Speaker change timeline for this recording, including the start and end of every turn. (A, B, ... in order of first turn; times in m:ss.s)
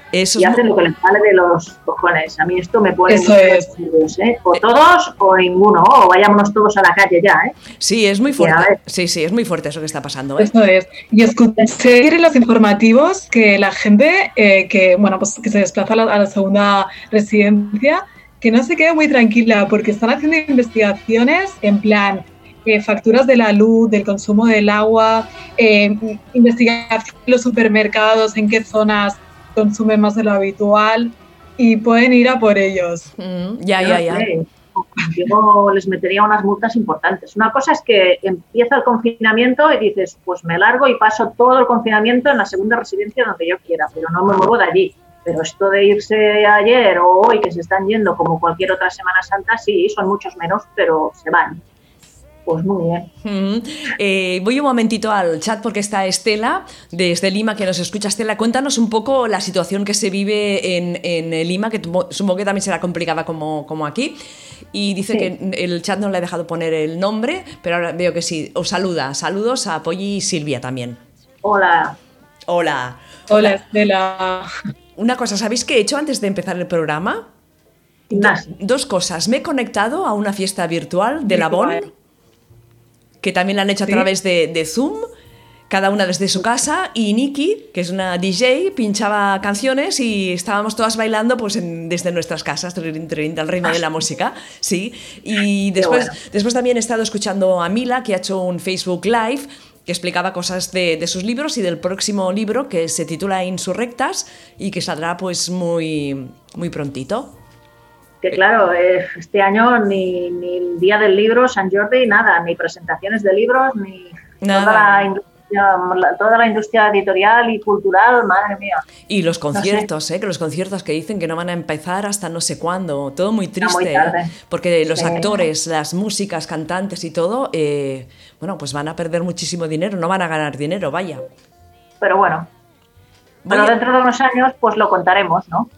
0:00.1-0:00.6 A
0:00.4-0:07.5 B
0:03.1-0:03.7 C
0:07.8-0:10.5 A
0:08.3-0:08.8 B
0:10.4-0:33.1 C
0:33.2-0:34.3 A
0:33.8-0:51.6 B
0:52.4-0:53.1 B
0:53.2-1:04.2 A
1:04.7-1:11.0 A
1:11.4-1:12.0 B
1:12.5-1:13.5 A
1:13.3-1:14.5 C
1:15.0-1:17.3 A
1:18.1-1:18.6 B
1:18.1-1:21.9 A
1:21.2-1:21.9 C
1:23.2-1:25.1 A
1:25.7-1:47.4 A
1:35.8-1:36.1 B
1:48.2-1:58.8 B
1:54.4-1:55.1 A
1:59.1-2:11.2 A
1:59.5-1:59.9 B
2:03.6-2:04.3 B
2:04.9-2:05.4 B
2:12.0-2:12.5 B
2:13.4-2:13.7 A
2:13.5-2:15.7 B